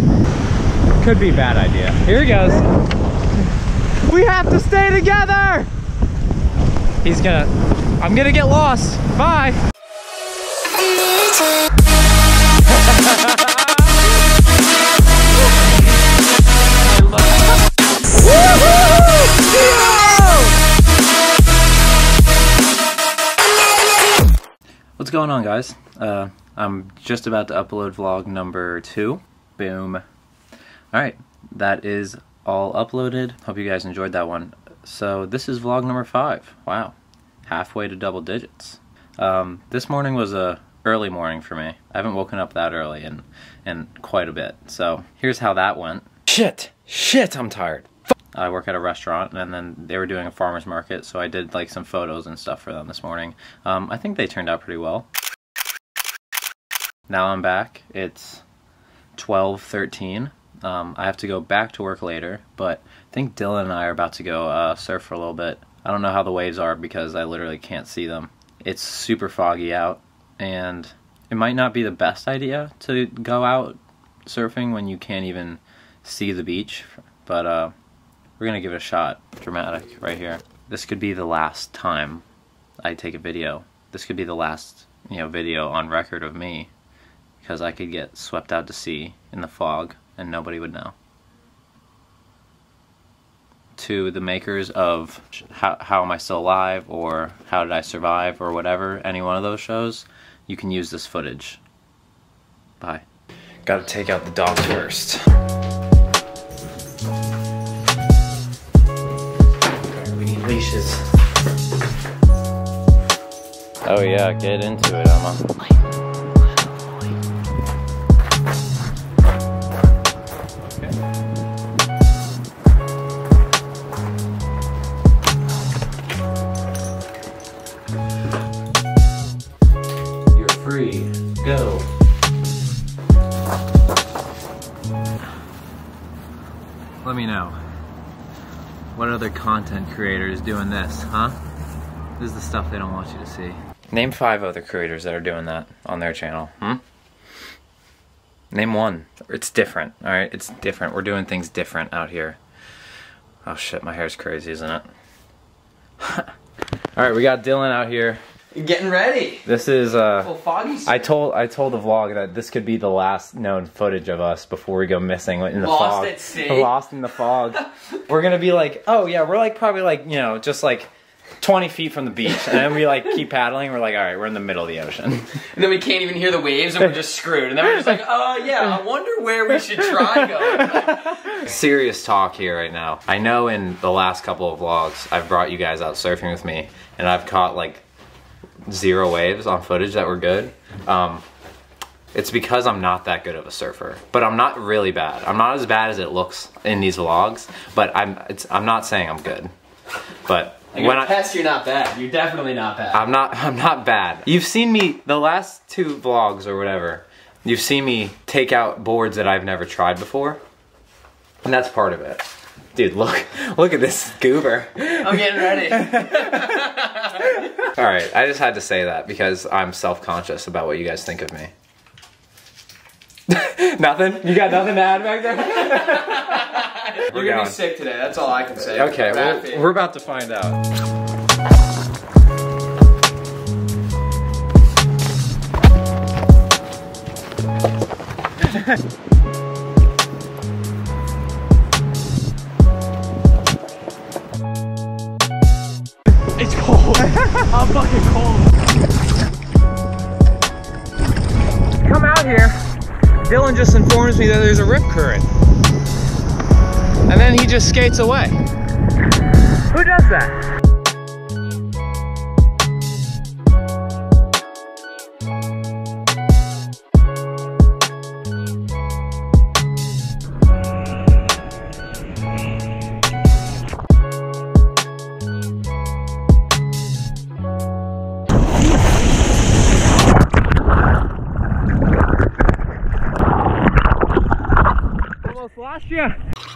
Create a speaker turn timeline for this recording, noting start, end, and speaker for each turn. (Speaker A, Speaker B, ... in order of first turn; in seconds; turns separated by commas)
Speaker A: 1.0-2.7, Speaker A: 4.1-5.7, Speaker A: 7.0-9.6, Speaker A: 12.9-13.7, Speaker B: 16.9-17.2, Speaker A: 19.4-20.5, Speaker A: 25.0-30.0, Speaker A: 30.9-55.1, Speaker A: 57.1-58.4, Speaker A: 59.1-77.7, Speaker A: 78.4-82.2, Speaker A: 82.8-86.7, Speaker A: 87.4-91.0, Speaker A: 93.8-101.6, Speaker A: 103.7-105.2, Speaker A: 109.9-111.1, Speaker A: 113.8-115.5, Speaker A: 120.6-121.0, Speaker A: 130.3-131.9, Speaker A: 137.0-137.6, Speaker A: 138.9-141.4, Speaker A: 142.2-146.8, Speaker A: 148.5-152.4, Speaker A: 153.4-154.8, Speaker A: 156.0-156.3, Speaker A: 156.9-158.2, Speaker B: 158.6-159.5, Speaker A: 159.5-160.3, Speaker B: 160.2-161.1, Speaker A: 160.9-175.4, Speaker B: 165.6-166.7, Speaker B: 175.5-181.4, Speaker A: 181.2-187.8, Speaker A: 188.7-191.2, Speaker A: 192.1-199.5, Speaker A: 200.3-201.2, Speaker B: 200.7-203.0, Speaker A: 202.9-210.4, Speaker A: 211.4-212.2, Speaker A: 212.8-221.5, Speaker B: 215.0-217.4, Speaker A: 223.3-227.6, Speaker B: 225.5-229.7, Speaker A: 228.7-230.6, Speaker A: 246.4-248.4, Speaker A: 251.8-255.3, Speaker A: 257.1-258.4, Speaker A: 259.7-260.4, Speaker A: 285.2-286.2